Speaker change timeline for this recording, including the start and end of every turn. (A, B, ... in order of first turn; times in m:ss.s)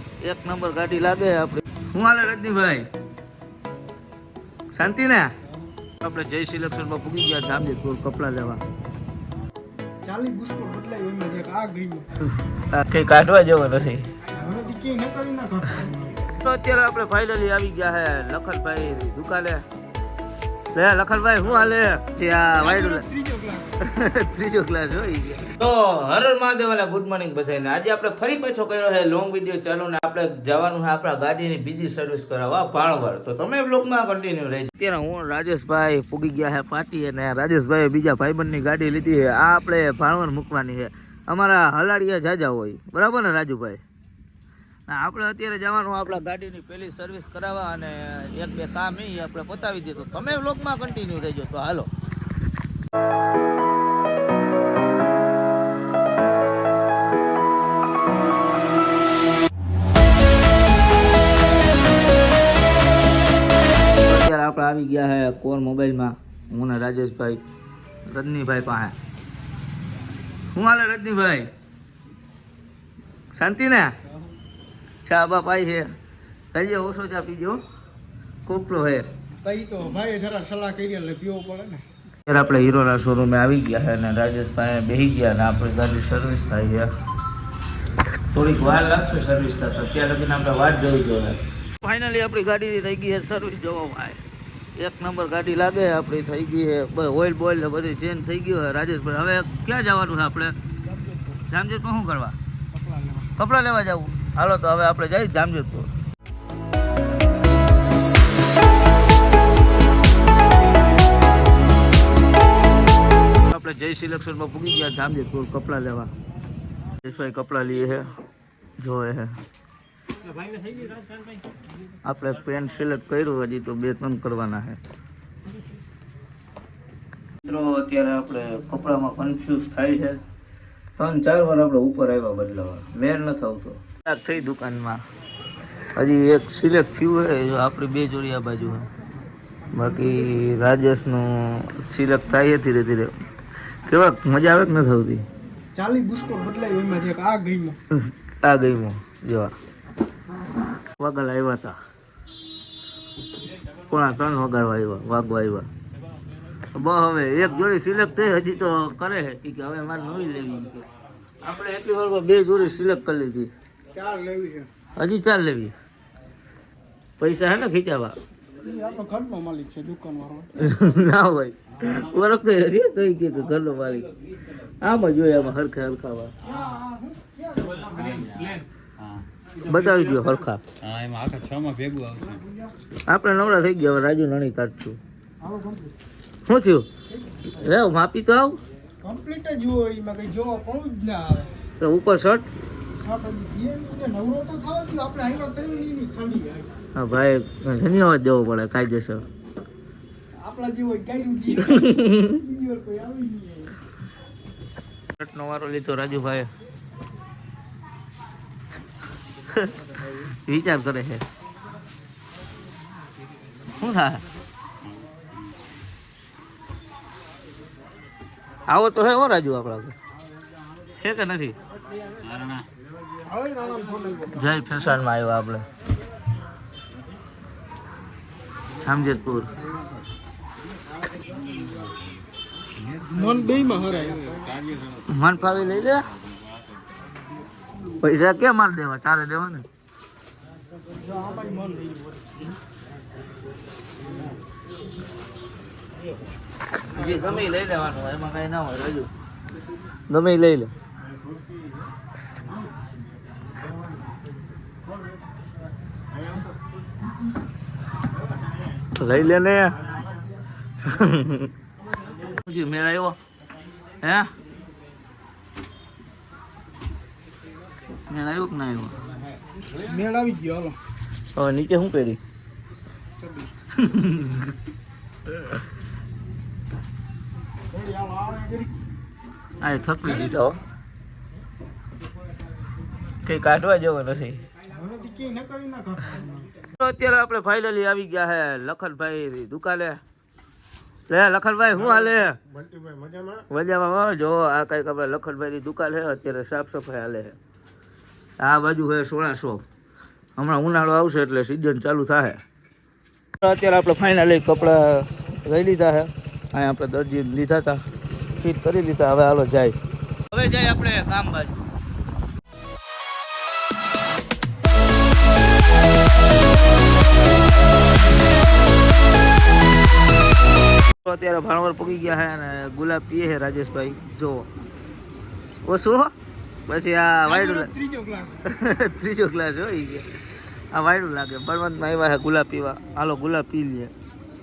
0:00.2-0:02.9 A
0:04.7-0:05.3 A
0:06.0-0:08.6 A
0:10.0-0:12.1 B
0:12.3-0:14.1 A
0:14.4-0:16.2 B
0:16.3-0:19.6 A
0:20.7-0:23.1 A
0:22.6-0:23.8 B
0:23.8-0:43.8 A
0:44.9-0:51.9 A
1:04.0-1:07.4 A
1:08.1-1:09.0 A
1:10.5-1:11.5 A
1:13.4-1:13.9 A
1:15.0-1:15.9 A
1:16.5-1:17.6 A
1:18.5-1:19.1 A
1:19.4-1:21.8 B
1:22.3-1:26.9 A
1:28.3-1:34.2 A
1:34.8-1:40.6 A
1:40.8-1:41.4 B
1:41.5-1:42.4 A
1:42.7-1:43.3 B
1:43.4-1:45.9 A
1:53.5-1:56.1 A
1:57.0-1:58.1 A
1:58.8-1:59.4 A
2:02.0-2:04.8 A
2:07.4-2:10.2 A
2:11.0-2:15.0 A
2:16.0-2:18.9 A
2:19.7-2:23.1 A
2:23.9-2:25.3 A
2:25.8-2:27.8 B
2:27.9-2:29.5 A
2:30.9-2:31.8 A
2:33.9-2:35.7 A
2:36.7-2:40.9 A
2:41.4-2:43.5 A
2:43.9-2:44.7 B
2:45.0-2:45.8 A
2:47.2-2:48.2 A
2:48.6-2:50.7 B
2:50.6-2:54.1 A
2:54.8-2:56.3 A
2:56.4-2:58.6 B
2:59.0-2:59.2 C
2:59.6-3:00.6 A
3:00.8-3:02.4 C
3:02.3-3:02.7 B
3:03.1-3:05.0 A
3:05.4-3:05.9 B
3:06.5-3:06.9 A
3:07.1-3:07.5 B
3:07.5-3:08.6 A
3:09.0-3:11.5 B
3:11.8-3:12.5 A
3:12.9-3:16.6 B
3:17.0-3:19.2 A
3:20.4-3:23.8 B
3:21.7-3:22.4 A
3:25.2-3:26.5 A
3:29.5-3:31.2 A
3:33.8-3:34.2 A
3:38.7-3:40.0 A
3:41.0-3:41.6 A
3:42.2-3:42.7 C
3:43.2-3:44.4 B
3:44.3-3:45.6 A
3:48.8-3:49.5 A
3:49.6-3:49.8 B
3:52.9-3:54.4 B
3:54.6-3:55.0 C
3:55.1-3:56.1 A
3:58.0-3:59.7 A
4:00.9-4:02.0 B
4:06.8-4:09.1 A
4:10.1-4:10.7 A
4:19.0-4:19.8 A
4:20.8-4:21.5 A
4:22.3-4:23.2 A
4:24.0-4:24.3 A
4:28.1-4:29.0 A
4:29.8-4:30.8 B
4:31.3-4:32.2 A
4:33.2-4:33.5 B
4:33.8-4:34.5 A
4:37.7-4:38.7 B
4:39.6-4:40.6 A
4:43.2-4:44.4 A
4:44.7-4:46.5 B
4:46.8-4:50.0 A
4:51.1-4:52.4 A
4:53.5-4:57.4 A
4:58.4-4:59.6 A
5:00.4-5:02.4 A
5:03.4-5:07.8 A
5:08.4-5:09.8 A
5:10.3-5:11.6 A
5:21.0-5:24.5 A
5:25.6-5:26.1 A
5:26.7-5:27.7 A
5:27.2-5:28.4 B
5:28.4-5:30.1 A
5:30.7-5:33.9 A